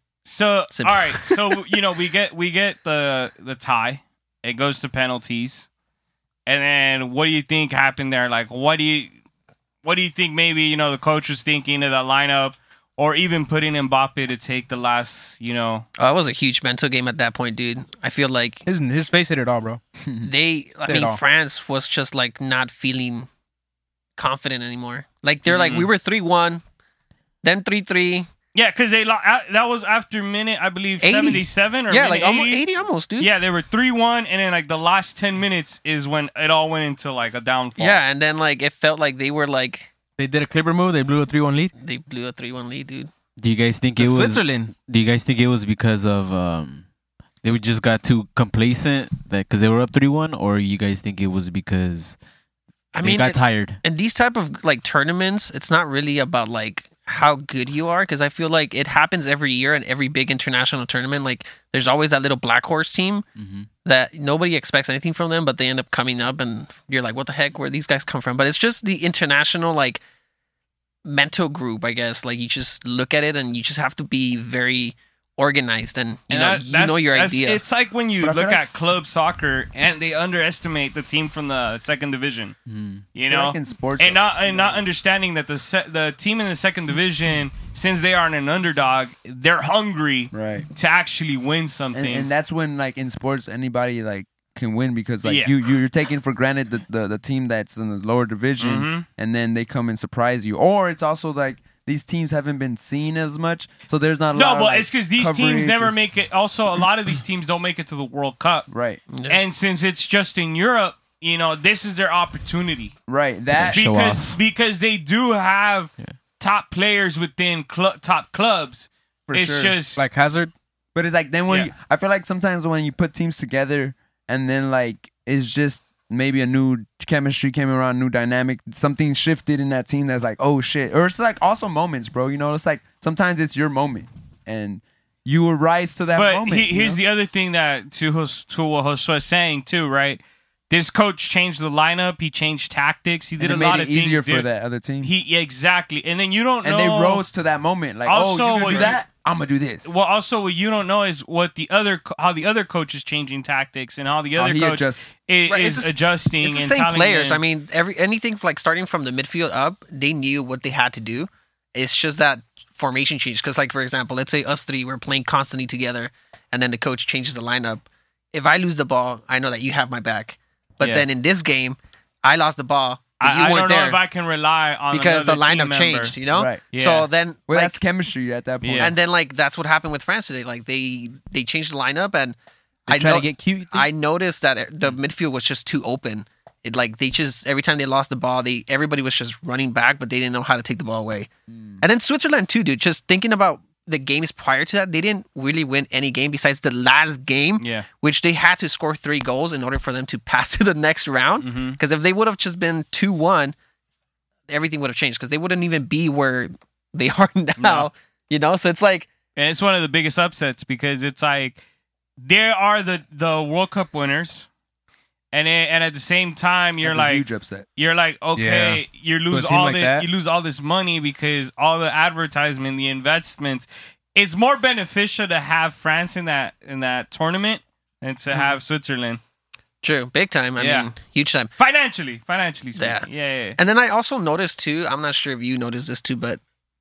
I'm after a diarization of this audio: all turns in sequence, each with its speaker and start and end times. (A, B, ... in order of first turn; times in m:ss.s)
0:00.2-0:05.7 A
0:00.7-0:01.6 B
0:06.5-0:09.2 A
0:09.8-0:15.9 A
0:16.0-0:18.6 B
0:18.7-0:19.8 C
0:20.2-0:23.3 B
0:20.9-0:21.2 C
0:24.2-0:26.6 B
0:25.5-0:25.9 A
0:27.4-0:28.3 B
0:28.5-0:32.6 A
0:31.0-0:33.3 B
0:33.2-0:38.0 A
0:37.8-0:39.9 B
0:40.2-0:41.7 C
0:41.8-0:43.1 B
0:43.4-0:46.8 D
0:44.0-0:44.7 C
0:47.4-0:52.2 D
0:52.9-1:03.2 B
0:53.0-0:53.8 D
1:03.4-1:03.7 D
1:03.8-1:10.0 B
1:11.0-1:17.6 B
1:16.3-1:22.6 A
1:18.2-1:18.6 E
1:22.7-1:23.0 D
1:23.1-1:32.3 A
1:23.3-1:24.8 E
1:30.3-1:30.7 E
1:31.9-1:45.9 E
1:35.2-1:35.5 A
1:38.6-1:39.1 A
1:44.3-1:48.7 A
1:48.7-1:49.0 E
1:49.1-1:49.4 B
1:49.3-1:52.9 A
1:53.1-1:53.9 E
1:53.5-1:54.4 D
1:53.7-2:00.0 A
1:59.3-1:59.8 E
2:00.0-2:00.5 C
2:01.0-2:17.0 E
2:16.1-2:24.5 A
2:23.4-2:25.1 E
2:25.0-2:27.2 A
2:26.6-2:29.9 E
2:28.1-2:29.0 A
2:28.7-2:29.0 B
2:29.8-2:37.4 A
2:34.4-2:35.1 E
2:35.5-2:54.0 B
2:53.2-2:56.2 A
2:54.9-2:57.8 B
2:56.3-2:56.6 E
2:56.7-2:57.1 A
2:57.5-2:59.0 E
2:58.6-2:58.9 A
2:58.8-3:02.4 B
3:02.9-3:11.3 B
3:02.9-3:03.9 C
3:02.9-3:03.2 E
3:11.5-3:11.8 E
3:11.8-3:23.6 B
3:17.6-3:17.9 A
3:21.4-3:21.8 A
3:24.5-3:29.1 B
3:27.6-3:27.9 A
3:29.4-3:31.6 A
3:32.2-3:34.5 A
3:35.3-3:37.2 A
3:36.8-3:37.7 E
3:37.8-3:49.2 A
3:38.4-3:40.1 C
3:49.8-3:51.5 B
3:50.6-3:50.9 A
3:51.6-3:53.6 A
3:52.8-3:56.4 B